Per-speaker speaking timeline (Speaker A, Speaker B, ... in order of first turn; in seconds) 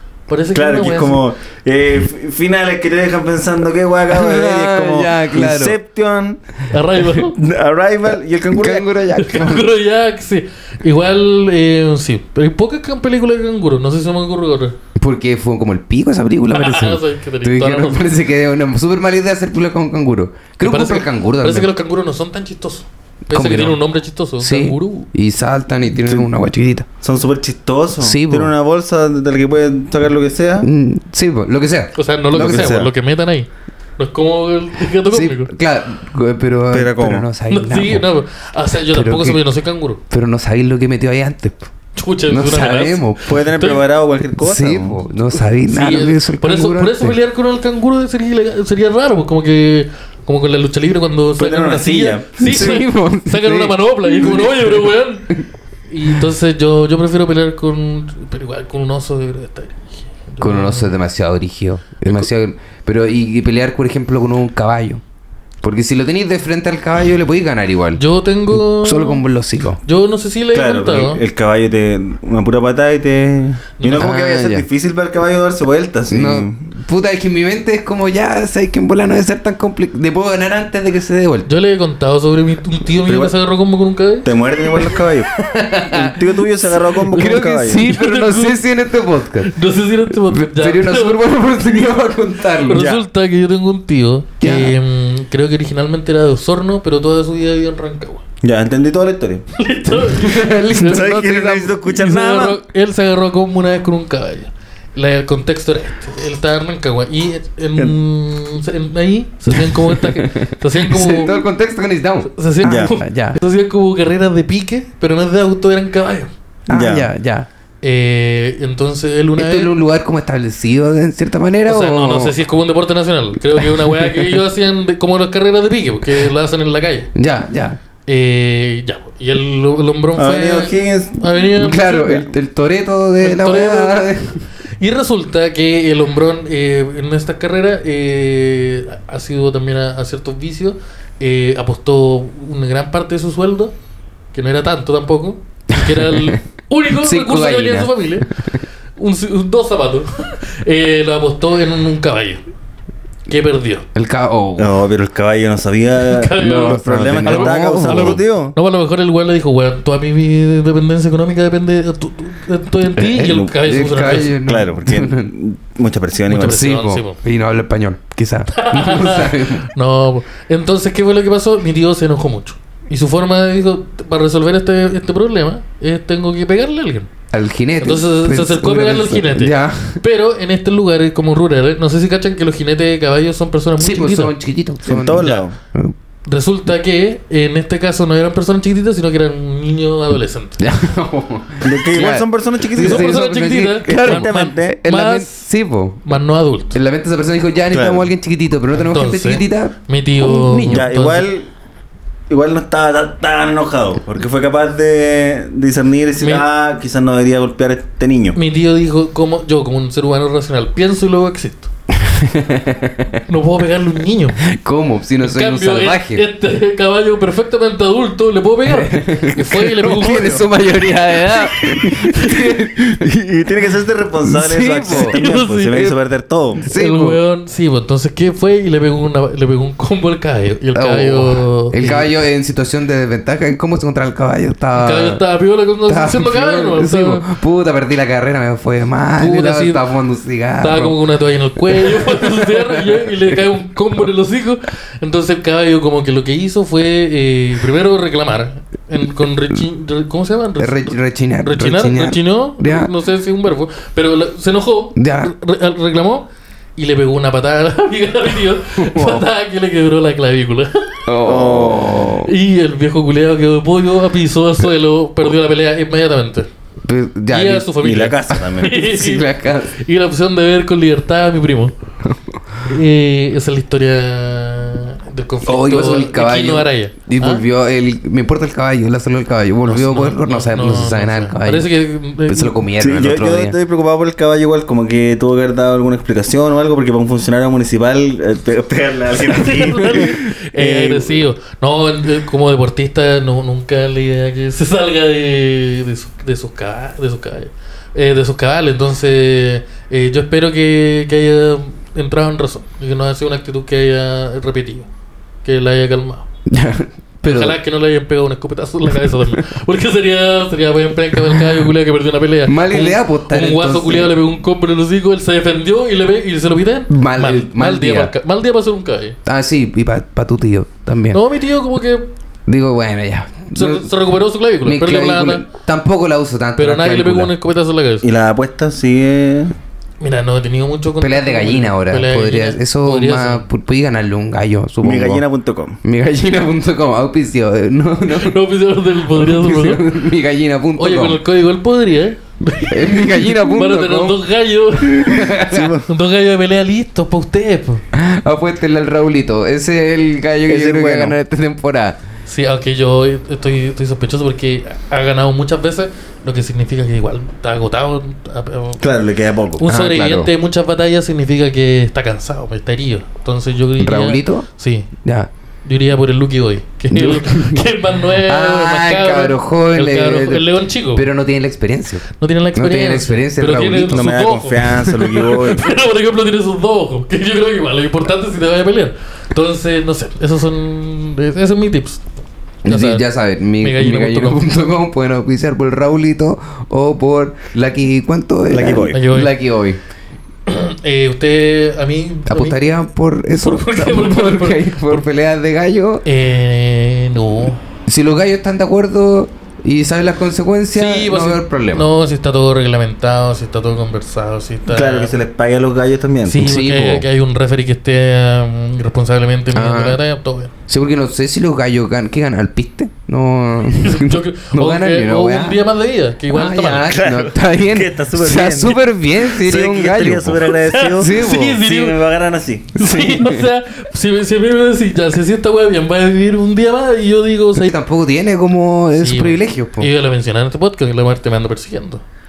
Speaker A: 0.3-1.2, 6.7-7.4, 9.1-14.8, 16.5-18.0, 20.6-25.1, 31.9-35.5, 37.5-40.0, 42.0-43.8, 45.6-55.3, 55.9-60.9, 68.0-69.2, 69.8-71.2, 73.8-74.1, 81.5-84.3, 87.8-88.6, 89.4-91.2, 92.7-98.2, 99.5-101.2, 101.8-111.4, 112.3-116.3, 117.8-119.7, 121.7-127.1, 128.1-132.3, 133.2-134.1, 134.8-143.7, 144.3-148.3, 149.0-152.4, 153.3-153.9, 156.0-164.3, 166.3-167.2, 168.5-177.1, 177.8-184.3, 185.2-185.4, 186.3-190.6, 192.8-195.5, 196.1-196.8, 198.7-201.3, 206.2-206.5, 208.3-211.7, 213.3-214.4, 215.2-220.5, 221.3-222.4, 224.9-225.9, 226.7-232.1, 234.8-237.3, 239.2-239.8, 240.6-261.0, 262.2-266.5, 267.3-271.7, 272.6-277.4, 279.6-282.6, 289.1-304.9, 305.4-306.3, 307.2-319.2, 321.1-322.1, 323.5-325.4, 326.6-328.1, 330.0-333.5, 338.1-339.9, 340.8-345.3, 345.9-347.8, 352.3-358.8, 359.6-364.9, 365.6-371.1, 372.2-382.1, 382.7-383.1, 383.6-384.4, 388.9-389.3, 390.5-392.6, 393.3-395.1, 396.1-397.6, 400.7-405.1, 406.3-410.5, 413.8-417.0, 420.6-422.0, 422.8-427.8, 429.0-432.0
Speaker B: 0.6-6.4, 7.4-8.9, 27.0-30.7, 32.3-32.9, 36.7-37.3, 43.3-45.0, 51.4-52.8, 70.5-76.7, 83.1-83.3, 84.2-85.3, 85.9-87.9, 92.7-93.0, 98.4-99.5, 100.8-102.6, 112.6-112.9, 116.7-117.1, 130.2-131.2, 154.6-158.6, 163.2-163.5, 164.4-166.7, 184.8-185.6, 191.6-193.2, 193.9-194.8, 197.7-198.1, 200.7-201.5, 202.3-208.4, 223.1-226.6, 261.2-262.2, 267.8-268.8, 282.8-291.2, 328.0-329.5, 334.8-335.8, 345.4-345.9, 350.5-351.2, 358.8-359.6, 373.9-375.8, 388.5-389.0, 404.7-406.5, 416.8-422.7
Speaker C: 4.1-5.8, 8.5-9.7, 15.0-21.7, 23.3-23.8, 24.4-26.9, 28.0-28.5, 30.6-32.8, 35.1-38.1, 38.9-39.4, 40.1-41.7, 42.3-43.4, 44.4-47.2, 52.4-55.5, 60.4-65.0, 65.6-69.8, 74.0-74.7, 76.1-81.5, 85.3-89.5, 90.1-92.8, 94.4-94.8, 100.0-101.8, 109.5-112.3, 112.9-113.4, 116.7-117.5, 119.4-122.3, 123.6-124.4, 127.2-127.8, 131.6-134.4, 145.8-146.4, 146.9-148.6, 153.9-154.8, 156.4-158.2, 162.9-165.3, 166.3-169.7, 177.3-180.0, 183.8-185.9, 190.6-196.2, 196.7-200.9, 211.9-213.2, 214.4-216.2, 218.7-223.2, 224.2-225.2, 226.6-227.2, 230.7-235.2, 235.9-241.0, 241.7-243.4, 250.6-252.9, 255.0-255.3, 258.8-259.3, 261.1-262.3, 266.9-267.7, 268.7-269.7, 272.1-272.4, 275.4-281.7, 282.3-283.6, 306.5-307.6, 308.9-309.5, 311.2-311.7, 312.5-314.1, 316.9-318.1, 319.2-321.2, 322.5-323.9, 324.6-327.3, 331.0-335.2, 335.8-338.4, 339.1-341.2, 342.7-344.2, 344.8-345.8, 347.9-352.0, 359.7-360.3, 363.8-364.5, 365.0-365.3, 366.9-374.2, 382.6-389.8, 392.3-396.0, 397.9-401.9, 406.3-407.1, 409.5-410.0, 410.7-415.6, 416.3-421.6, 422.8-423.5, 427.6-429.9